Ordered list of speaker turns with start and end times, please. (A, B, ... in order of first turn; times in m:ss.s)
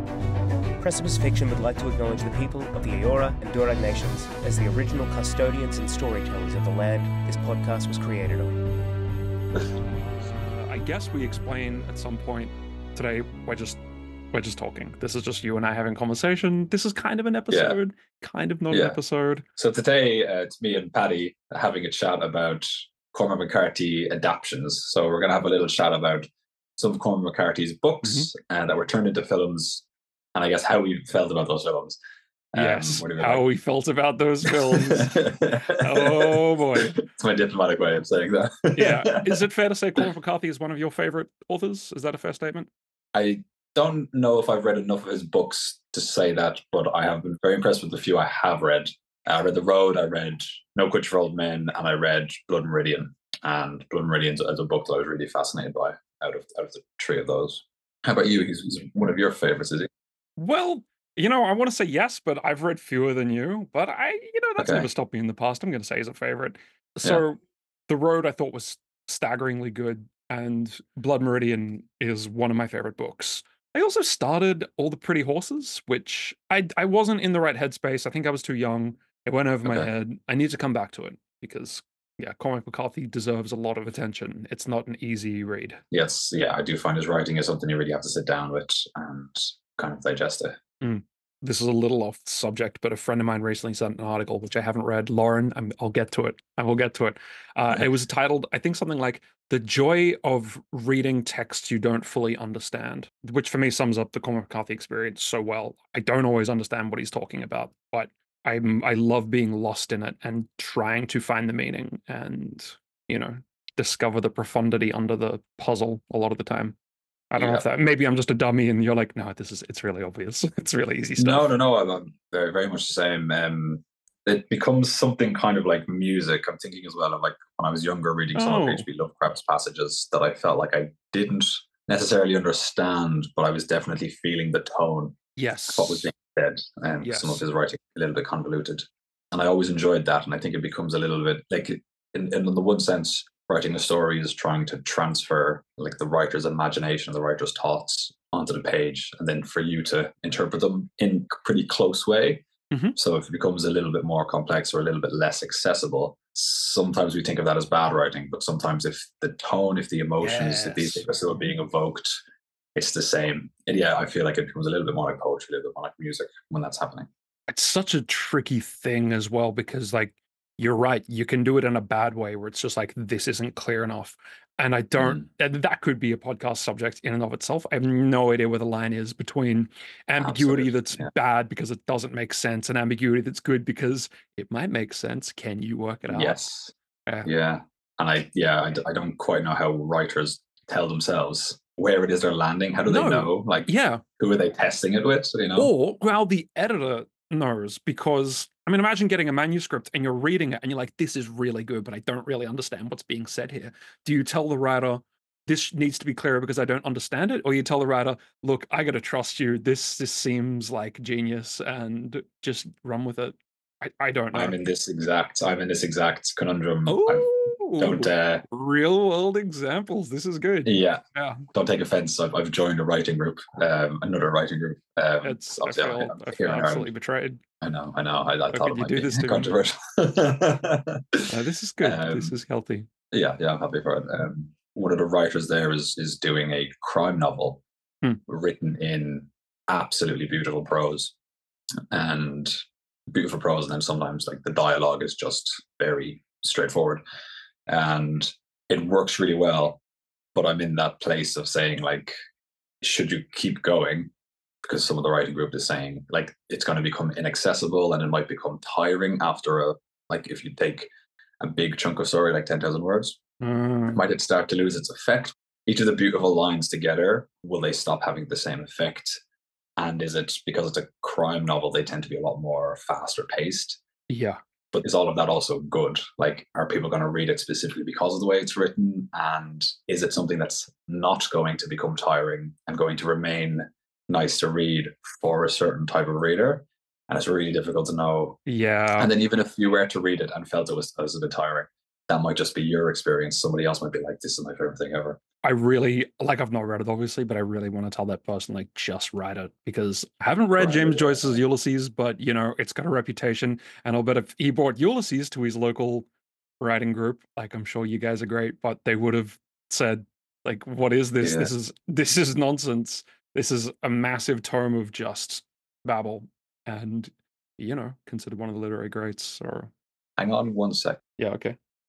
0:00.8-0:08.6 A
0:09.8-0:13.8 B
0:14.3-0:19.4 B
0:17.5-0:17.8 C
0:18.7-0:19.0 C
0:19.6-0:32.0 C
0:32.5-0:33.4 C
0:32.5-0:37.0 B
0:34.4-0:39.4 C
0:38.8-0:42.7 B
0:43.1-0:59.9 C
1:00.4-1:25.8 B
1:04.6-1:04.9 C
1:25.9-1:30.6 C
1:30.8-1:56.8 B
1:57.3-2:01.5 B
1:57.4-1:57.6 C
2:01.2-2:15.2 C
2:08.3-2:08.8 B
2:15.4-2:16.1 B
2:15.7-2:42.2 C
2:17.0-2:17.4 B
2:32.7-2:33.0 B
2:40.2-2:41.0 B
2:42.7-2:47.1 C
2:47.5-3:06.4 B
3:00.2-3:01.1 C
3:06.1-3:06.7 C
3:07.2-3:15.7 C
3:12.9-3:14.0 B
3:15.6-3:34.6 B
3:34.3-3:38.4 C
3:36.8-3:41.4 B
3:40.6-3:41.0 C
3:41.5-3:46.9 C
3:45.2-3:47.4 B
3:47.6-3:51.3 C
3:48.5-3:49.5 B
3:51.3-3:52.9 B
3:51.8-3:52.3 C
3:53.1-3:57.6 C
3:58.3-4:01.1 C
4:01.9-4:02.5 C
4:03.1-4:07.0 C
4:07.7-4:09.8 C
4:10.3-4:12.1 C
4:12.8-4:14.1 C
4:14.6-4:20.9 C
4:21.4-4:23.2 C
4:23.4-4:24.0 B
4:23.9-4:29.2 C
4:29.8-4:33.8 C
4:34.1-4:34.4 B
4:34.7-4:48.4 C
4:48.4-4:49.1 B
4:49.0-4:55.2 C
4:55.4-5:06.1 B
5:00.6-5:01.4 C
5:06.6-5:19.7 B
5:11.2-5:11.5 C
5:20.2-5:21.0 C
5:21.2-5:21.6 B